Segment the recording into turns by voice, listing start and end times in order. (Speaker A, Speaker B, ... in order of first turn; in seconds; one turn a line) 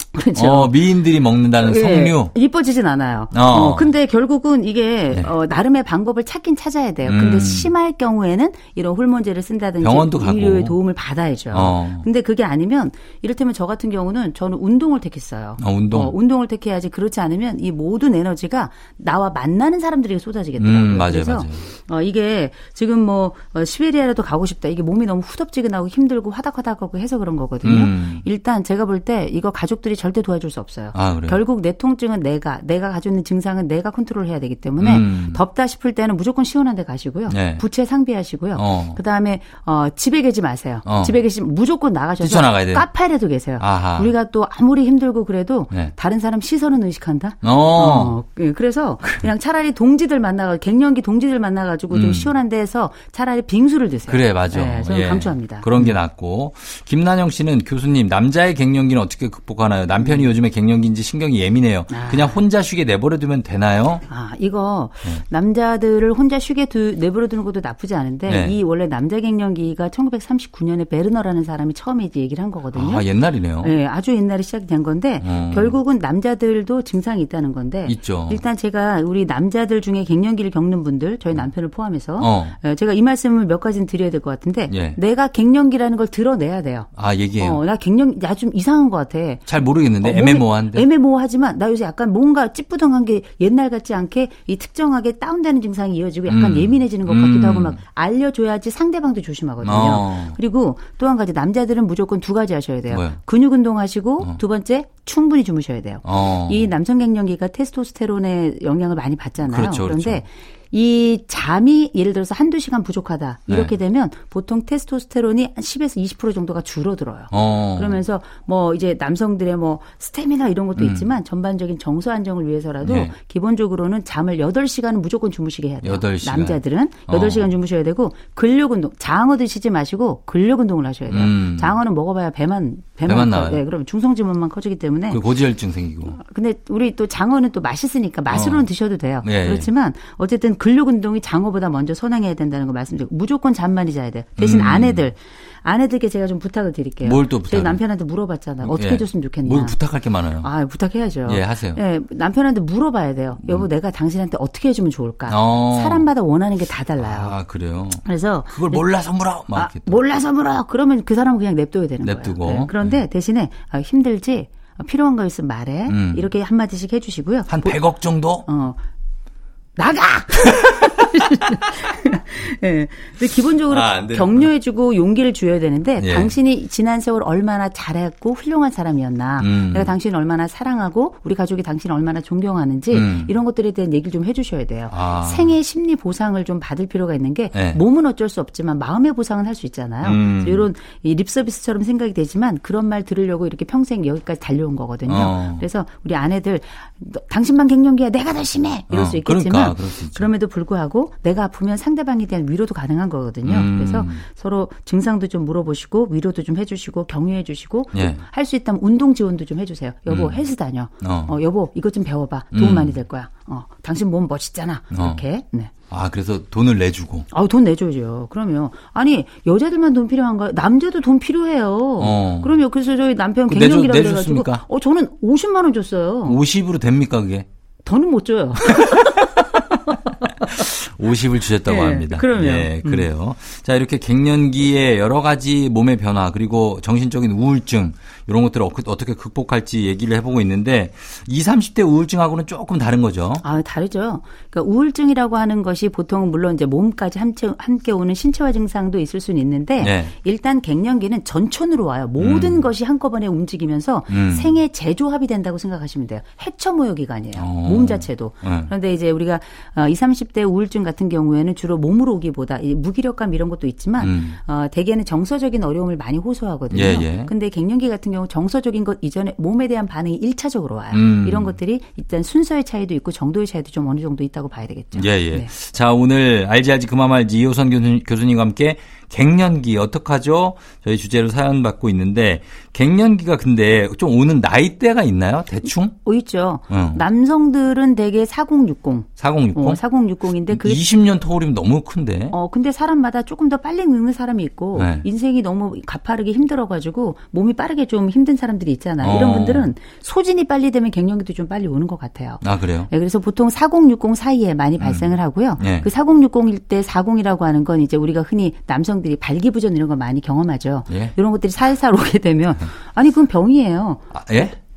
Speaker A: 0.1-0.8
Speaker B: 0.3-2.3
Speaker A: 1.6-56.0
Speaker B: 3.3-3.9
Speaker B: 7.0-7.7
Speaker B: 9.8-10.8
Speaker B: 11.5-12.1
Speaker B: 15.6-16.1
Speaker B: 20.6-21.6
Speaker B: 27.6-28.2
Speaker B: 30.9-31.4
Speaker B: 34.8-35.4
Speaker B: 37.3-37.6
Speaker B: 38.5-39.0
Speaker B: 40.9-41.2
Speaker B: 42.2-42.9
Speaker B: 43.6-44.1
Speaker B: 47.4-48.2
Speaker B: 51.9-52.3
Speaker B: 54.1-64.0
Speaker A: 61.9-62.4
Speaker A: 64.1-73.1
Speaker B: 68.2-68.6
Speaker B: 72.7-73.7
Speaker A: 73.6-135.2
Speaker B: 75.2-75.8
Speaker B: 77.8-78.4
Speaker B: 82.2-82.6
Speaker B: 84.7-85.0
Speaker B: 86.9-87.6
Speaker B: 89.5-90.8
Speaker B: 96.3-97.8
Speaker B: 99.6-100.4
Speaker B: 102.9-103.2
Speaker B: 106.0-106.7
Speaker B: 109.4-110.2
Speaker B: 113.5-113.7
Speaker B: 117.3-118.0
Speaker B: 120.8-121.1
Speaker B: 122.8-123.1
Speaker B: 125.8-127.5
Speaker B: 131.1-131.8
Speaker B: 133.1-133.6
Speaker B: 135.1-136.2
Speaker A: 136.1-149.8
Speaker B: 138.3-138.7
Speaker B: 139.2-139.7
Speaker B: 144.4-145.1
Speaker B: 147.0-147.8
Speaker B: 148.6-150.5
Speaker A: 150.4-157.4
Speaker B: 151.2-151.8
Speaker B: 155.3-156.1
Speaker B: 157.0-160.0
Speaker A: 158.0-158.9
Speaker A: 159.5-167.8
Speaker B: 162.0-163.0
Speaker B: 165.9-166.3
Speaker B: 167.5-168.4
Speaker A: 168.4-168.8
Speaker A: 169.8-215.7
Speaker B: 173.7-174.5
Speaker B: 176.0-176.3
Speaker B: 179.4-179.9
Speaker B: 182.9-183.3
Speaker B: 184.9-185.5
Speaker B: 187.5-187.8
Speaker B: 190.0-190.7
Speaker B: 195.1-195.6
Speaker B: 198.9-200.3
Speaker B: 203.4-204.2
Speaker B: 207.9-208.2
Speaker B: 210.1-210.4
Speaker B: 211.0-211.3
Speaker B: 212.5-213.0
Speaker B: 214.9-215.2
Speaker B: 215.9-217.3
Speaker A: 217.3-226.4
Speaker B: 222.0-222.6
Speaker B: 223.5-224.6
Speaker B: 226.2-227.4
Speaker A: 227.8-230.6
Speaker B: 228.7-229.4
Speaker B: 230.4-243.4
Speaker A: 231.6-233.1
Speaker A: 243.4-275.5
Speaker B: 249.8-250.1
Speaker B: 252.2-252.7
Speaker B: 254.1-254.6
Speaker B: 257.3-258.7
Speaker B: 264.0-264.4
Speaker B: 266.7-267.3
Speaker B: 270.9-271.5
Speaker B: 274.9-285.9
Speaker A: 286.0-290.8
Speaker B: 286.7-287.0
Speaker B: 289.2-289.8
Speaker B: 290.5-292.4
Speaker A: 292.3-314.0
Speaker B: 294.7-295.1
Speaker B: 299.0-299.7
Speaker B: 302.4-302.9
Speaker B: 304.8-305.9
Speaker B: 310.9-311.1
Speaker B: 314.1-314.6